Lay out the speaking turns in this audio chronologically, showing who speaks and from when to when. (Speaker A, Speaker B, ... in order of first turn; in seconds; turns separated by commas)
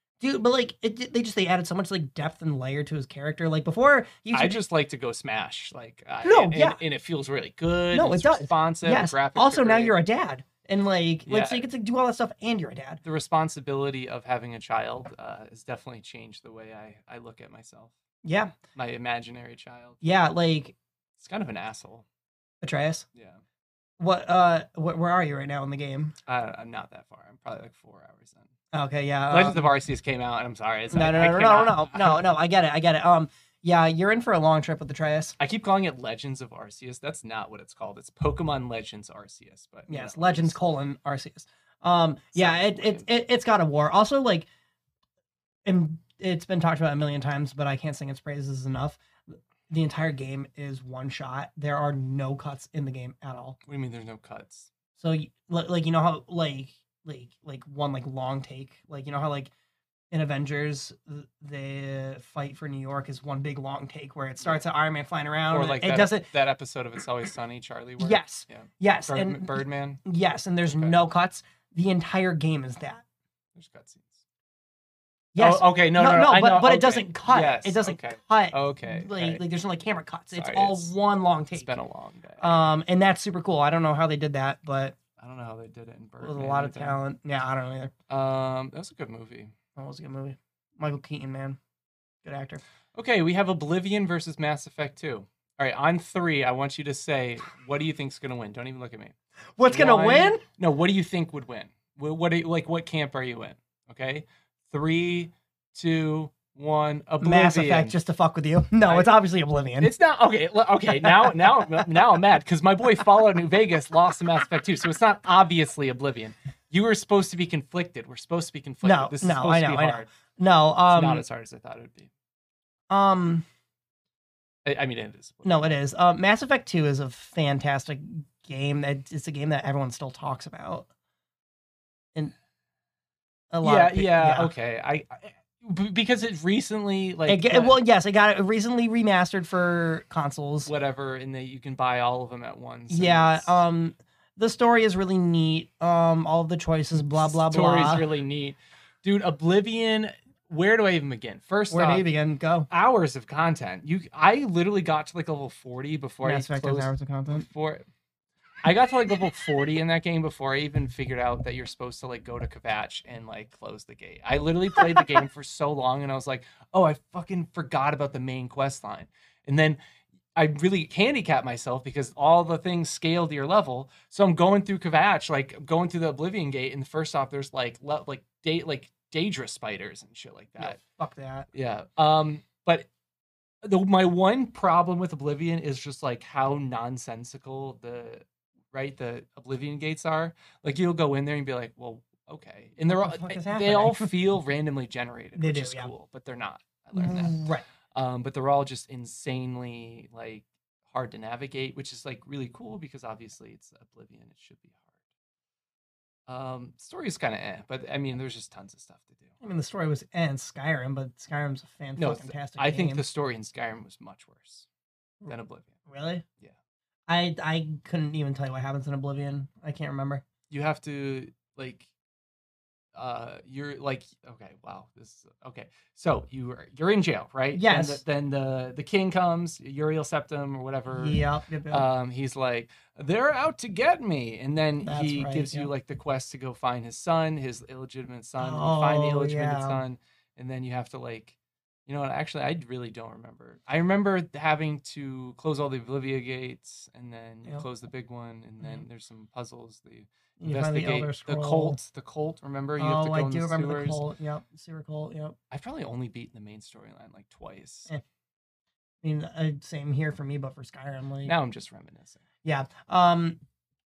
Speaker A: 0.2-4.6, Speaker B: 4.3-10.0, Speaker A: 6.2-6.8, Speaker A: 7.9-13.0, Speaker B: 11.3-11.7, Speaker B: 13.0-17.9, Speaker A: 18.2-18.6, Speaker B: 18.8-20.0, Speaker A: 20.0-20.8, Speaker B: 21.2-22.1, Speaker A: 22.6-23.1, Speaker B: 23.1-23.4, Speaker A: 24.0-26.1, Speaker B: 26.3-28.5, Speaker A: 28.7-29.6, Speaker B: 29.3-32.2, Speaker A: 30.9-35.4, Speaker B: 35.4-40.6, Speaker A: 39.9-44.5, Speaker B: 42.3-43.1, Speaker A: 45.6-49.0, Speaker A: 49.7-53.6, Speaker B: 53.7-54.7, Speaker A: 55.0-59.5, Speaker A: 60.1-66.3, Speaker B: 65.5-70.0, Speaker A: 68.0-73.0, Speaker B: 70.7-71.0, Speaker B: 73.5-74.2, Speaker A: 75.3-81.7, Speaker B: 75.4-79.4, Speaker B: 80.4-80.9, Speaker B: 81.5-82.7, Speaker A: 82.4-85.0, Speaker B: 85.2-87.0, Speaker A: 86.2-87.9, Speaker B: 88.1-89.5, Speaker A: 89.8-91.6, Speaker A: 92.2-92.6, Speaker B: 92.9-99.2, Speaker A: 99.6-100.4, Speaker B: 99.7-108.0, Speaker A: 107.2-109.9, Speaker B: 108.8-109.1, Speaker B: 109.8-120.1, Speaker A: 111.0-111.3, Speaker A: 118.8-121.2, Speaker B: 120.9-122.1, Speaker A: 122.9-123.5, Speaker B: 124.7-125.8, Speaker A: 125.4-130.9, Speaker A: 133.5-134.5, Speaker B: 133.6-137.8, Speaker A: 137.3-140.7, Speaker B: 140.7-143.6, Speaker A: 142.9-148.0, Speaker B: 147.2-152.1, Speaker A: 151.7-152.7, Speaker B: 152.7-157.9, Speaker A: 156.2-157.5, Speaker B: 158.6-169.8, Speaker B: 170.4-180.8, Speaker A: 180.6-181.5, Speaker B: 181.5-182.9, Speaker B: 183.6-197.4, Speaker A: 192.9-194.1, Speaker A: 195.4-195.9, Speaker A: 196.9-197.6, Speaker B: 197.9-204.9, Speaker B: 206.3-209.3, Speaker A: 209.4-213.0, Speaker B: 212.0-214.7, Speaker B: 215.3-215.8, Speaker A: 215.9-216.2, Speaker A: 217.1-220.2, Speaker B: 220.5-221.9, Speaker B: 222.9-241.4, Speaker A: 227.5-228.0, Speaker A: 230.9-231.9, Speaker A: 234.8-235.7, Speaker A: 238.4-239.8, Speaker B: 241.9-254.0, Speaker A: 250.4-251.8, Speaker A: 252.8-255.4, Speaker B: 255.5-257.9, Speaker A: 259.0-261.3, Speaker B: 261.2-262.2, Speaker A: 262.4-263.4